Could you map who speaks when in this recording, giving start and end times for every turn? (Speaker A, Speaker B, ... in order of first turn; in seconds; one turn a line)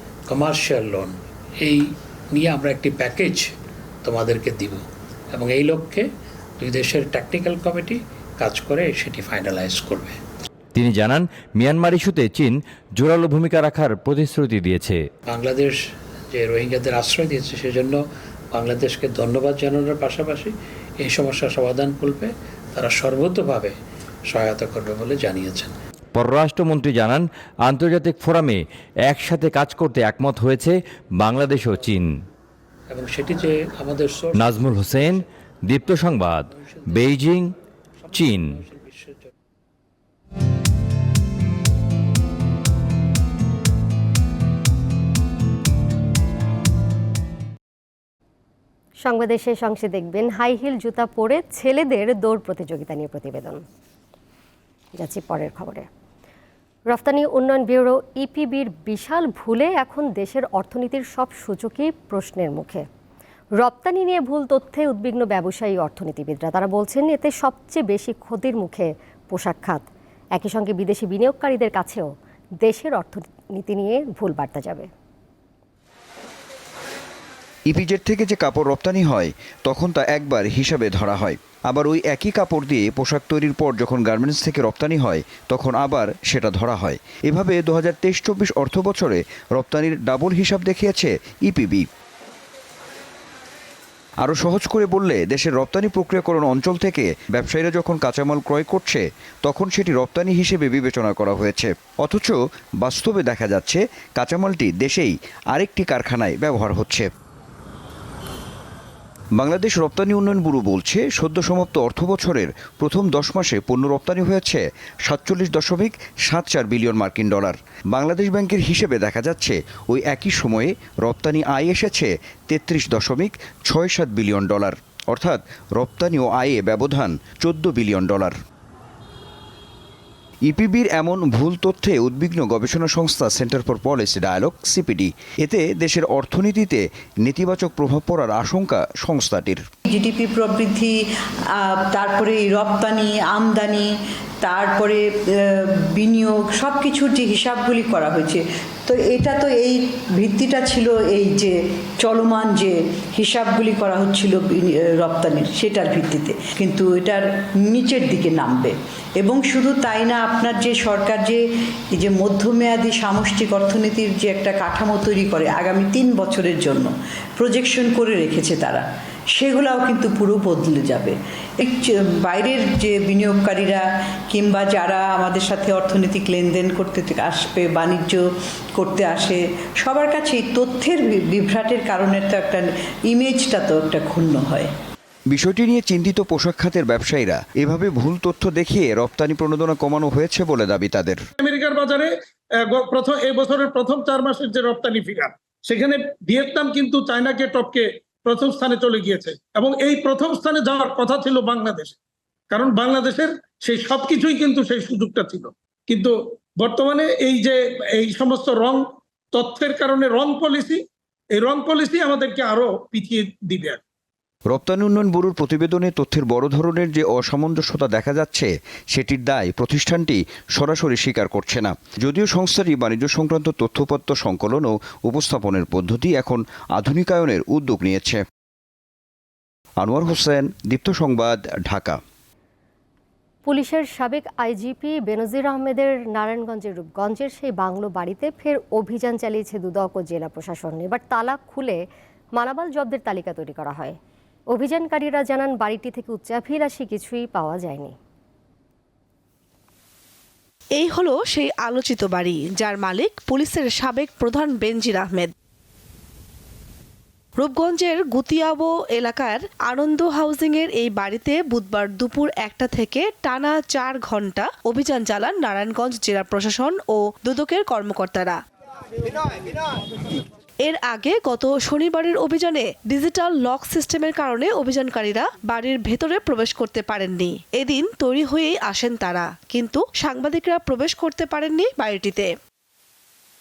Speaker A: 0.3-3.5
Speaker A: 4.0-6.1
Speaker A: 6.6-10.2
Speaker B: 10.8-15.0
Speaker A: 15.3-15.8
Speaker A: 16.3-18.0
Speaker A: 18.5-23.8
Speaker A: 24.3-25.7
Speaker B: 26.1-32.1
Speaker A: 32.9-35.2
Speaker B: 34.4-37.5
Speaker A: 36.6-37.1
Speaker B: 38.1-38.6
Speaker A: 38.1-39.3
Speaker C: 49.0-53.6
Speaker C: 55.0-55.9
Speaker C: 56.9-62.9
Speaker C: 63.6-74.9
Speaker D: 77.7-91.9
Speaker D: 94.2-107.1
Speaker D: 109.3-128.3
Speaker D: 130.5-139.6
Speaker E: 139.9-141.0
Speaker E: 141.6-143.9
Speaker E: 144.4-161.4
Speaker E: 162.0-168.8
Speaker E: 169.4-178.2
Speaker E: 178.8-184.7
Speaker D: 185.3-191.2
Speaker F: 191.4-192.1
Speaker F: 192.7-201.9
Speaker F: 202.5-208.8
Speaker F: 209.3-210.8
Speaker F: 211.4-213.8
Speaker D: 214.5-228.2
Speaker D: 229.8-232.0
Speaker C: 233.5-241.8
Speaker C: 242.4-244.0
Speaker C: 244.5-248.0
Speaker G: 250.8-255.3
Speaker G: 257.4-268.4
Speaker G: 270.6-282.3